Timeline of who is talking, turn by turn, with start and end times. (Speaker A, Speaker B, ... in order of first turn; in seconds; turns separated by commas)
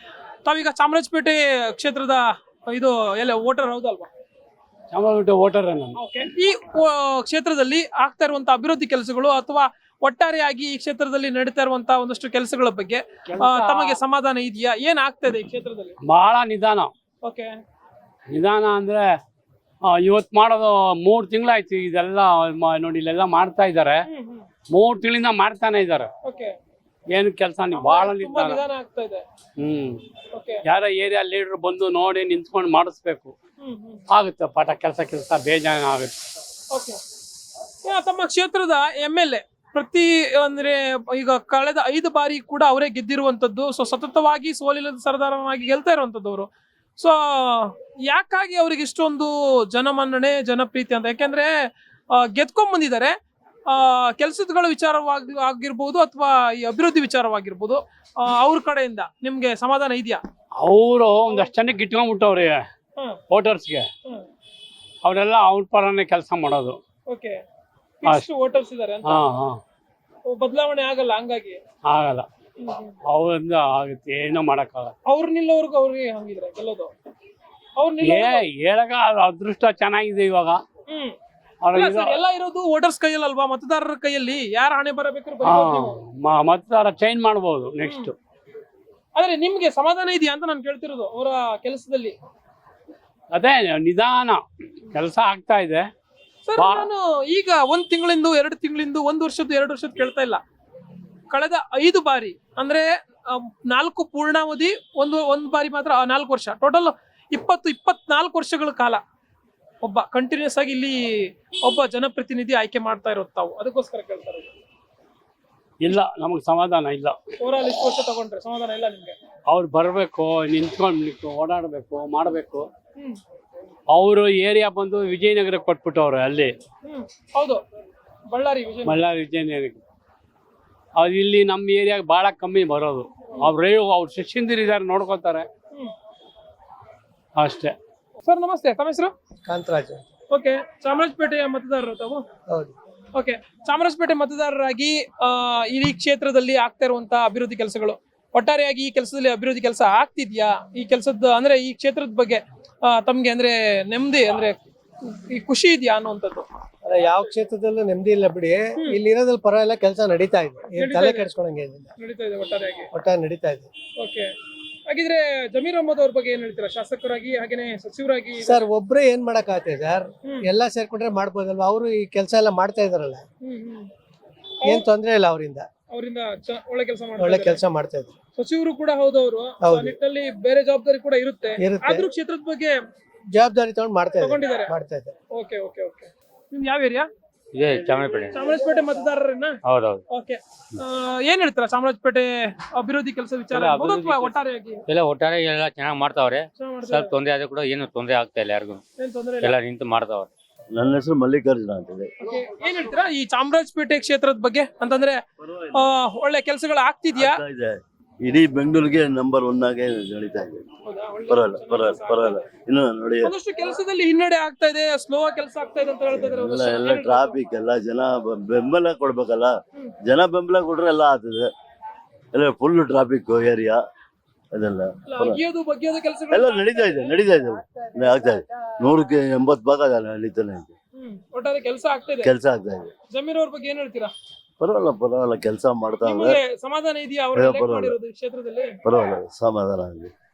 Speaker A: 0.5-4.1, Speaker B: 4.9-6.0, Speaker A: 6.0-16.0, Speaker B: 13.3-14.0, Speaker B: 16.0-16.9, Speaker A: 17.2-17.5, Speaker B: 18.3-19.2, Speaker B: 19.9-24.0, Speaker A: 24.1-24.5, Speaker B: 24.7-26.1, Speaker A: 26.2-26.6, Speaker B: 27.1-28.6, Speaker A: 27.7-29.2, Speaker B: 29.6-30.0, Speaker A: 30.3-30.6, Speaker B: 30.6-33.3, Speaker A: 33.6-34.0, Speaker B: 34.1-36.2, Speaker A: 36.7-37.0, Speaker A: 37.8-51.5, Speaker A: 52.1-53.2, Speaker A: 53.7-60.2, Speaker B: 60.6-62.6, Speaker B: 63.3-63.9, Speaker B: 65.0-66.8, Speaker A: 67.1-67.4, Speaker A: 68.0-69.2, Speaker B: 69.0-69.6, Speaker A: 70.3-71.6, Speaker B: 71.8-72.3, Speaker A: 72.6-73.0, Speaker B: 73.1-74.9, Speaker A: 75.1-76.9, Speaker A: 77.8-78.5, Speaker B: 78.0-80.6, Speaker A: 80.9-81.2, Speaker B: 81.6-82.2, Speaker A: 81.7-86.0, Speaker B: 85.4-88.1, Speaker A: 87.8-88.1, Speaker A: 89.2-92.2, Speaker B: 93.3-95.9, Speaker A: 96.5-100.4, Speaker B: 96.6-96.9, Speaker A: 101.3-109.0, Speaker A: 109.8-114.5, Speaker B: 115.8-117.2, Speaker A: 117.4-119.2, Speaker B: 119.5-122.7, Speaker B: 123.9-126.5, Speaker A: 126.9-127.6, Speaker A: 128.3-129.0, Speaker B: 128.8-129.8, Speaker B: 131.0-135.5, Speaker B: 137.4-137.8, Speaker A: 138.2-139.1, Speaker C: 139.5-140.1, Speaker A: 140.3-142.2, Speaker A: 143.2-156.4, Speaker C: 156.8-161.9, Speaker A: 160.8-161.3, Speaker A: 162.0-162.9, Speaker C: 162.9-163.7, Speaker A: 164.0-164.3, Speaker A: 164.9-168.7, Speaker C: 168.4-173.2, Speaker A: 170.2-170.5, Speaker A: 173.4-173.9, Speaker C: 174.7-175.7, Speaker A: 175.9-177.6, Speaker C: 177.2-178.1, Speaker A: 178.4-182.8, Speaker C: 179.6-180.0, Speaker C: 181.6-182.1, Speaker C: 183.3-185.1, Speaker A: 184.2-184.8, Speaker A: 185.3-187.1, Speaker D: 187.5-188.5, Speaker A: 188.3-189.6, Speaker D: 189.7-190.0, Speaker A: 190.1-194.8, Speaker D: 193.5-198.8, Speaker A: 196.6-197.2, Speaker A: 199.0-199.6, Speaker D: 199.4-200.3, Speaker E: 200.7-202.1, Speaker A: 202.2-205.2, Speaker A: 205.7-207.4, Speaker E: 207.2-210.6, Speaker A: 210.9-212.4, Speaker E: 211.3-213.3, Speaker A: 213.2-217.4, Speaker E: 216.1-221.5, Speaker E: 222.3-223.8, Speaker E: 224.5-225.4, Speaker A: 225.1-227.2, Speaker E: 226.3-230.7, Speaker C: 227.7-228.4, Speaker A: 231.0-232.3, Speaker E: 232.2-232.9, Speaker A: 233.1-234.1, Speaker E: 234.6-236.4, Speaker A: 236.0-238.8, Speaker E: 237.3-237.9, Speaker E: 238.8-240.1